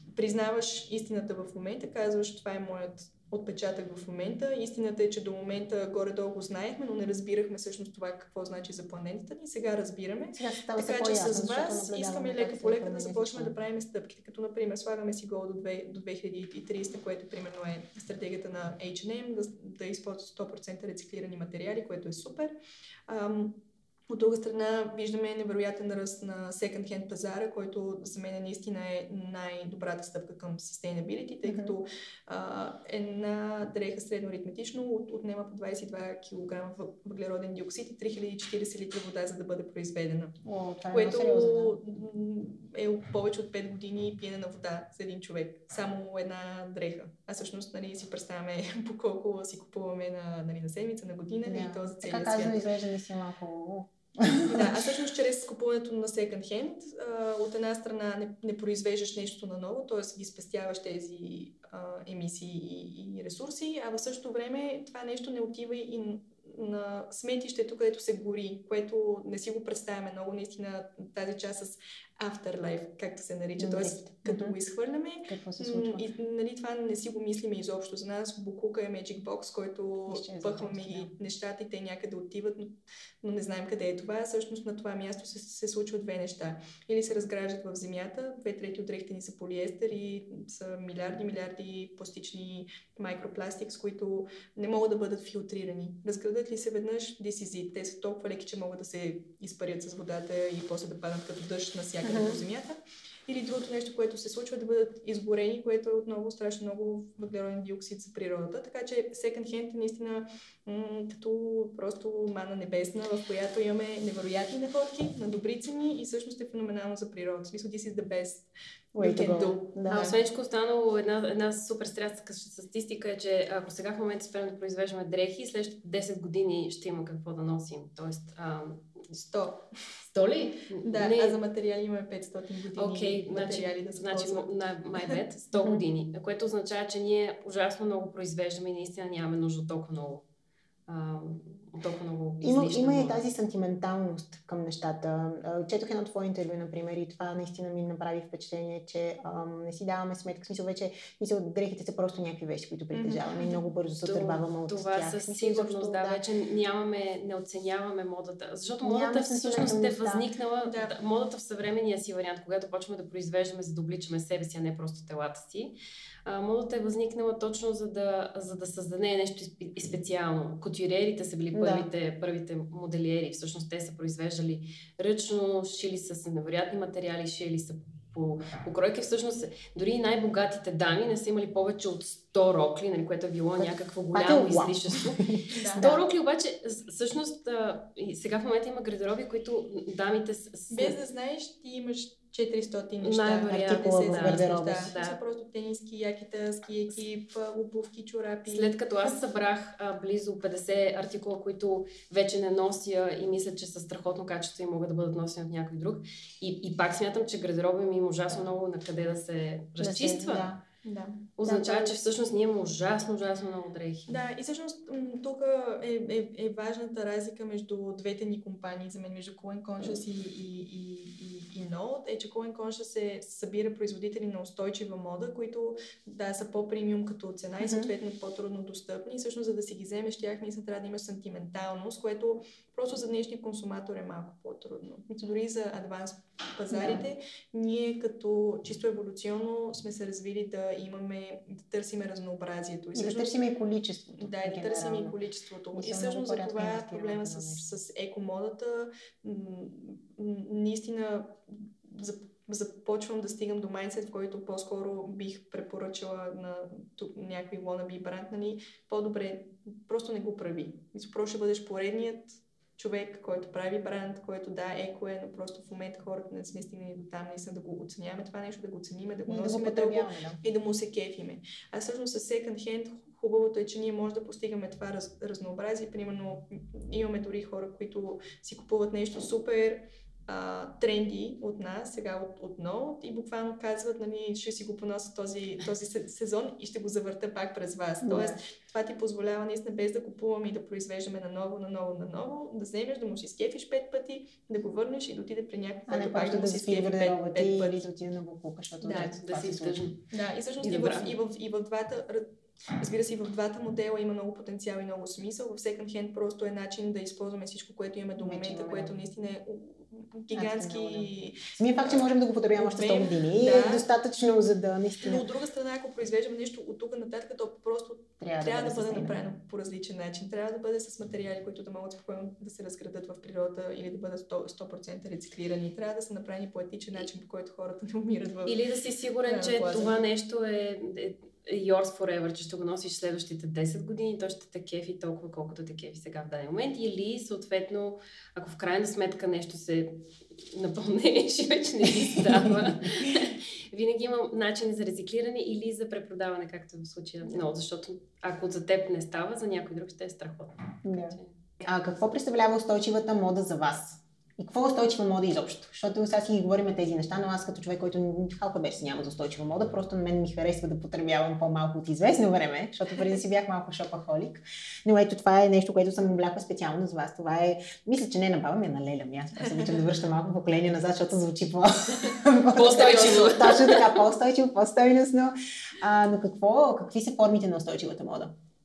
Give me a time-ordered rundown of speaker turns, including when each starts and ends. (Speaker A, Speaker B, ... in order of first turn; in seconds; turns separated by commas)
Speaker A: 0.1-22.6, Speaker B: 10.3-13.5, Speaker A: 23.1-40.4, Speaker B: 31.4-31.7, Speaker B: 40.5-41.8, Speaker A: 40.9-52.6, Speaker B: 51.5-54.8, Speaker A: 54.5-120.2, Speaker B: 73.6-74.5, Speaker B: 75.3-76.0, Speaker B: 80.1-81.1, Speaker B: 102.0-102.4, Speaker B: 119.0-120.1, Speaker C: 119.9-129.1, Speaker A: 129.1-129.7, Speaker C: 130.0-131.4, Speaker A: 130.8-135.2, Speaker C: 132.8-140.2, Speaker C: 140.9-143.2, Speaker B: 142.4-156.2, Speaker A: 152.9-153.7, Speaker C: 154.0-191.0, Speaker B: 158.8-160.3, Speaker A: 160.7-160.9, Speaker B: 171.5-171.9, Speaker B: 183.6-186.0, Speaker A: 185.5-185.8, Speaker A: 190.7-199.1, Speaker C: 193.0-195.2, Speaker B: 193.5-194.9, Speaker C: 198.5-210.5, Speaker B: 209.8-210.6, Speaker A: 210.8-211.3, Speaker C: 211.4-214.2, Speaker B: 211.4-211.9, Speaker A: 214.1-243.4, Speaker B: 227.6-227.9, Speaker B: 236.7-237.0, Speaker B: 242.9-245.2, Speaker A: 244.2-297.8, Speaker B: 245.7-247.7, Speaker B: 269.3-270.4, Speaker B: 288.0-288.4, Speaker B: 295.9-299.8, Speaker C: 298.8-300.0, Speaker A: 300.1-313.9, Speaker C: 300.6-301.2, Speaker B: 308.2-308.9, Speaker B: 310.3-315.3, Speaker A: 315.0-328.6, Speaker B: 318.2-319.2, Speaker C: 328.5-351.4, Speaker A: 329.2-330.0, Speaker B: 342.1-343.1, Speaker B: 350.8-378.3, Speaker A: 369.4-369.8, Speaker C: 372.5-373.9, Speaker A: 372.6-373.8